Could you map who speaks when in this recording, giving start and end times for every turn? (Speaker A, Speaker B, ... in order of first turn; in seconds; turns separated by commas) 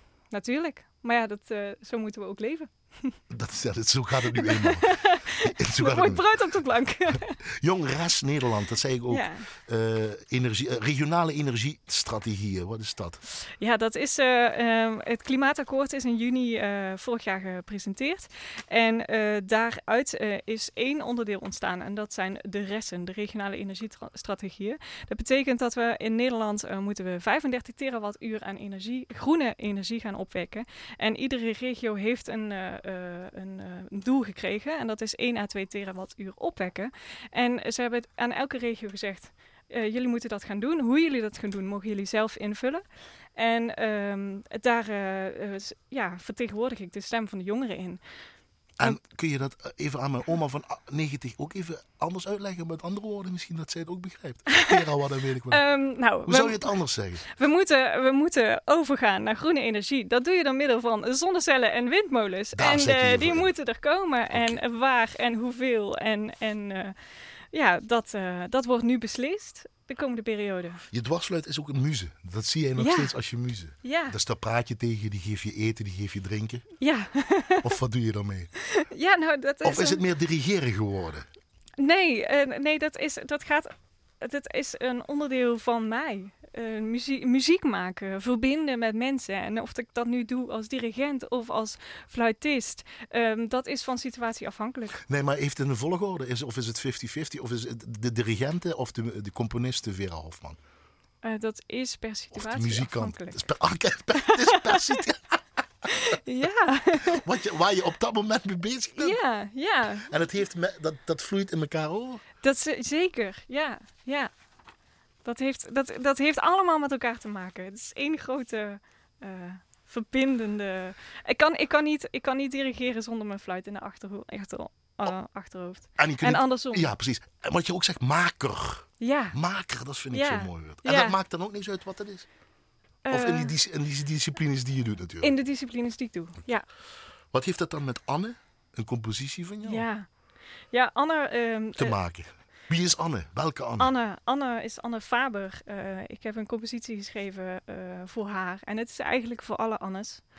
Speaker A: 0.3-3.2, Speaker B: 3.3-6.3, Speaker A: 4.3-7.4, Speaker B: 7.6-13.2, Speaker A: 9.1-9.5, Speaker A: 13.6-42.8, Speaker A: 43.4-48.0, Speaker B: 48.8-55.6, Speaker A: 54.5-54.8, Speaker A: 55.5-67.0, Speaker B: 56.2-57.2, Speaker B: 62.5-63.5, Speaker B: 64.3-64.6, Speaker A: 67.5-70.8, Speaker B: 70.9-76.7, Speaker A: 72.8-73.1, Speaker A: 73.8-74.1, Speaker A: 76.8-77.8, Speaker B: 77.6-78.5, Speaker A: 78.6-80.0, Speaker B: 79.6-81.2, Speaker A: 81.8-95.0, Speaker B: 95.0-100.6, Speaker A: 101.2-103.4, Speaker B: 102.3-105.4, Speaker A: 104.2-105.0, Speaker A: 105.9-107.2, Speaker B: 107.0-109.2, Speaker A: 109.0-110.1, Speaker B: 110.1-112.2, Speaker A: 112.4-114.3, Speaker A: 115.2-126.9, Speaker B: 126.0-132.3, Speaker A: 129.0-129.3, Speaker A: 130.1-131.2, Speaker A: 133.0-133.5, Speaker B: 133.1-135.3, Speaker A: 135.2-136.7, Speaker B: 137.3-139.8, Speaker A: 139.6-140.1, Speaker A: 140.7-142.0, Speaker B: 141.8-143.9, Speaker A: 143.8-150.2